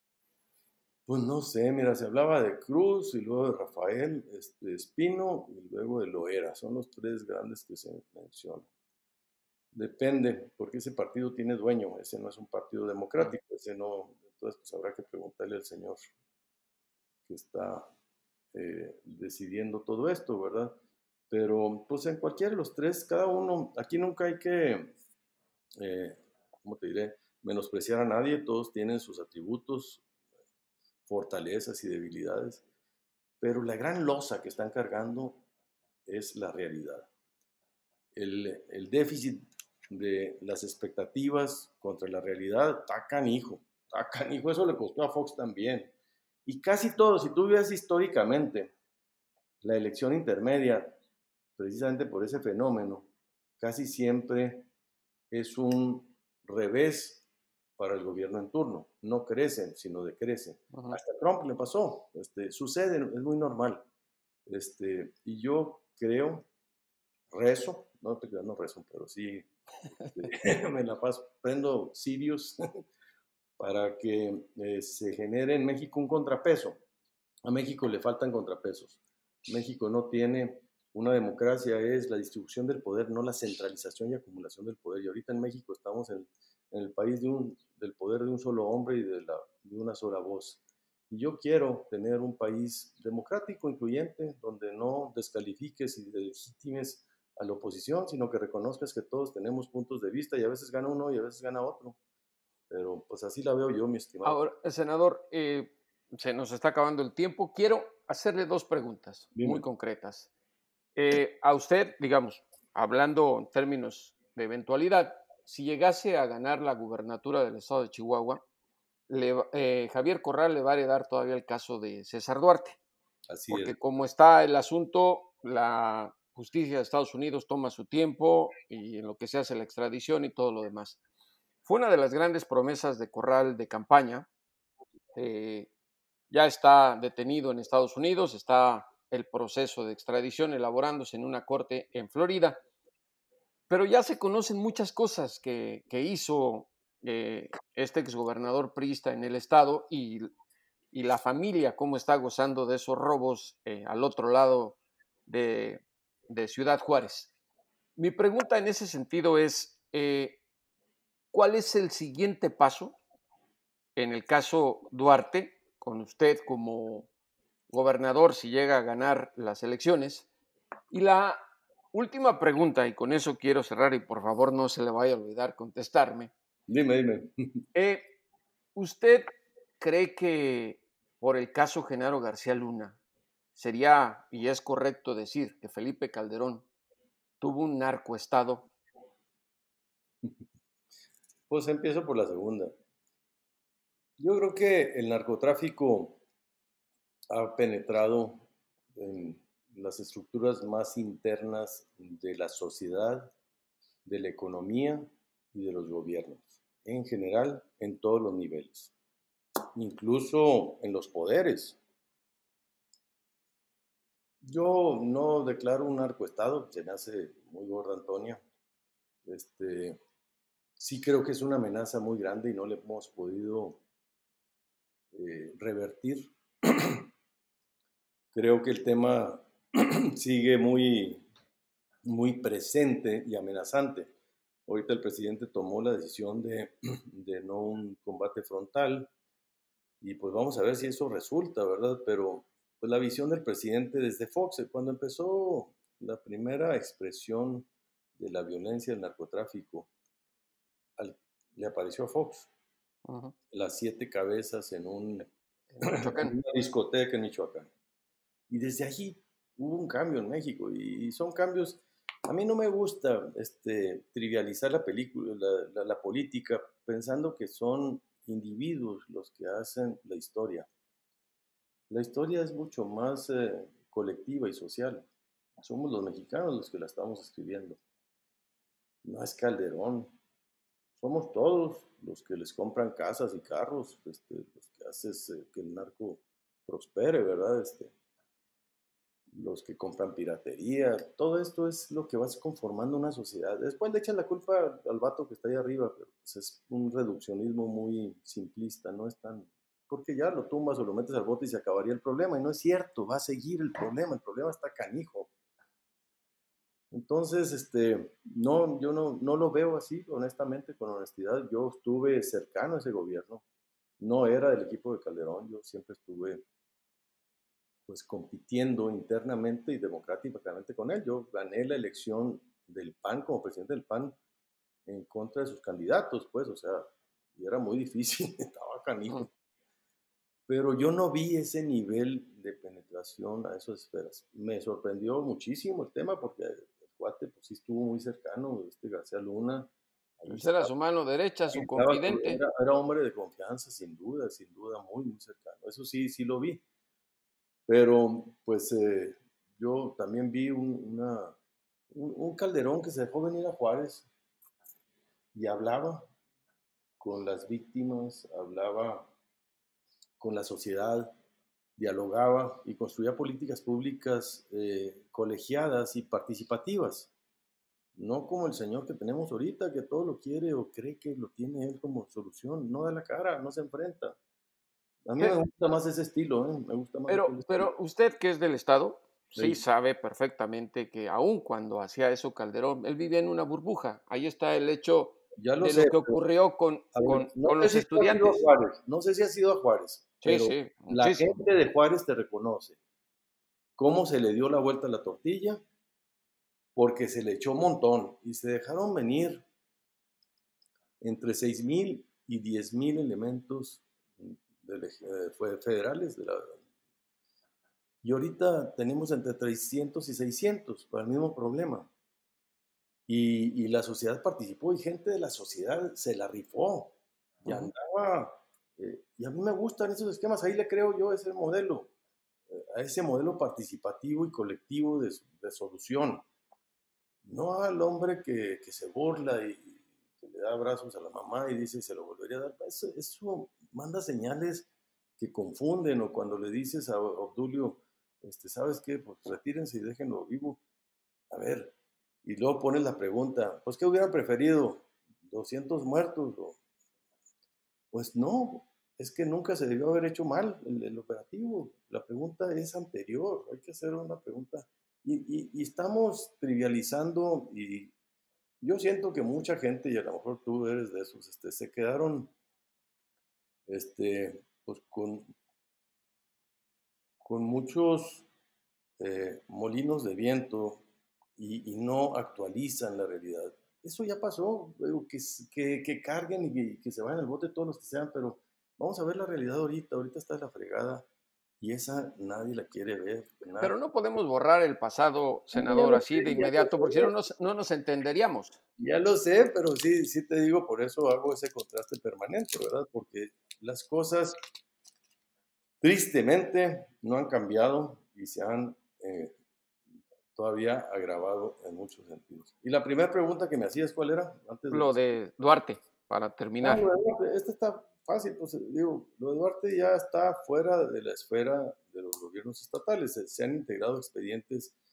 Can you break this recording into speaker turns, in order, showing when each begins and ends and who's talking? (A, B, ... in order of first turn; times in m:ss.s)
0:01.1-0:08.7 A
0:09.7-0:16.0 A
0:17.3-0:17.9 A
0:18.5-0:20.8 A
0:21.3-0:24.9 A
0:25.8-0:30.0 A
0:31.1-0:32.6 A
0:33.4-0:35.4 A
0:36.1-0:37.1 A
0:38.1-0:45.9 A
0:46.4-0:48.7 A
0:49.6-0:51.0 A
0:51.6-0:53.1 A
0:53.6-0:54.7 A
0:55.3-0:57.2 A
0:57.8-1:03.8 A
1:00.7-1:01.0 B
1:04.5-1:06.4 A
1:07.3-1:09.5 A
1:10.1-1:12.6 A
1:13.6-1:16.8 A
1:17.4-1:42.0 A
1:42.7-1:44.4 A
1:44.2-1:50.3 B
1:49.4-1:49.6 A
1:51.0-1:58.4 B
1:59.1-2:02.8 B
2:03.3-2:03.8 A
2:03.5-2:11.0 B
2:11.6-2:14.3 B
2:15.1-2:15.7 B
2:16.3-2:22.6 B
2:23.7-2:30.3 B
2:30.9-2:37.3 B
2:38.0-2:40.4 B
2:41.3-2:43.0 B
2:44.0-2:47.1 B
2:47.7-2:50.3 B
2:50.9-2:51.4 B
2:51.9-2:56.3 B
2:56.7-2:57.3 A
2:57.7-2:58.1 B
2:58.8-3:03.0 B
3:03.6-3:06.7 B
3:07.4-3:08.7 B
3:11.5-3:12.7 A
3:14.2-3:16.2 A
3:17.3-3:23.3 A
3:24.0-3:28.9 A
3:29.8-3:31.8 A
3:34.4-3:38.4 A
3:39.2-3:40.0 A
3:40.8-3:43.8 A
3:45.1-3:47.1 A
3:48.3-3:51.3 A
3:52.0-3:54.1 A
3:54.7-3:59.1 A
4:00.0-4:09.9 A
4:11.0-4:12.5 A
4:13.0-4:13.4 B
4:13.5-4:15.3 A
4:15.7-4:16.4 B
4:15.8-4:17.7 A
4:18.5-4:30.7 A
4:31.9-4:35.1 A
4:35.6-4:37.8 A
4:39.0-4:40.1 A
4:41.0-4:47.9 A
4:49.3-5:05.3 A
5:06.9-5:13.4 A
5:14.0-5:16.4 A
5:17.9-5:24.2 A
5:24.9-5:29.3 A
5:30.5-5:40.7 A
5:40.3-5:42.4 B
5:41.5-5:46.6 A
5:47.7-5:51.4 A
5:51.9-5:54.1 A
5:55.3-5:56.1 A
5:57.0-5:59.1 A
6:00.2-6:01.1 A
6:01.8-6:07.1 A
6:08.0-6:14.2 A
6:15.1-6:17.7 A
6:17.1-6:28.5 B
6:19.4-6:19.6 A
6:25.4-6:26.2 A
6:27.0-6:32.8 A
6:30.2-6:31.4 B
6:33.8-6:35.6 A
6:36.8-6:39.4 A
6:41.0-6:46.6 A
6:48.0-6:51.9 A
6:53.1-7:01.9 A
7:02.5-7:06.2 A
7:07.2-7:14.7 A
7:15.2-7:20.6 A
7:21.3-7:26.6 A
7:27.9-7:37.9 A
7:38.6-7:42.3 A
7:43.7-7:45.3 A
7:47.2-7:48.3 A
7:49.0-7:50.8 A
7:51.4-8:01.1 A
8:01.6-8:03.8 A
8:03.6-8:08.6 B
8:05.5-8:07.1 A
8:08.8-8:14.4 A
8:15.8-8:19.4 A
8:20.4-8:25.2 A
8:24.7-8:26.8 B
8:26.6-8:34.8 A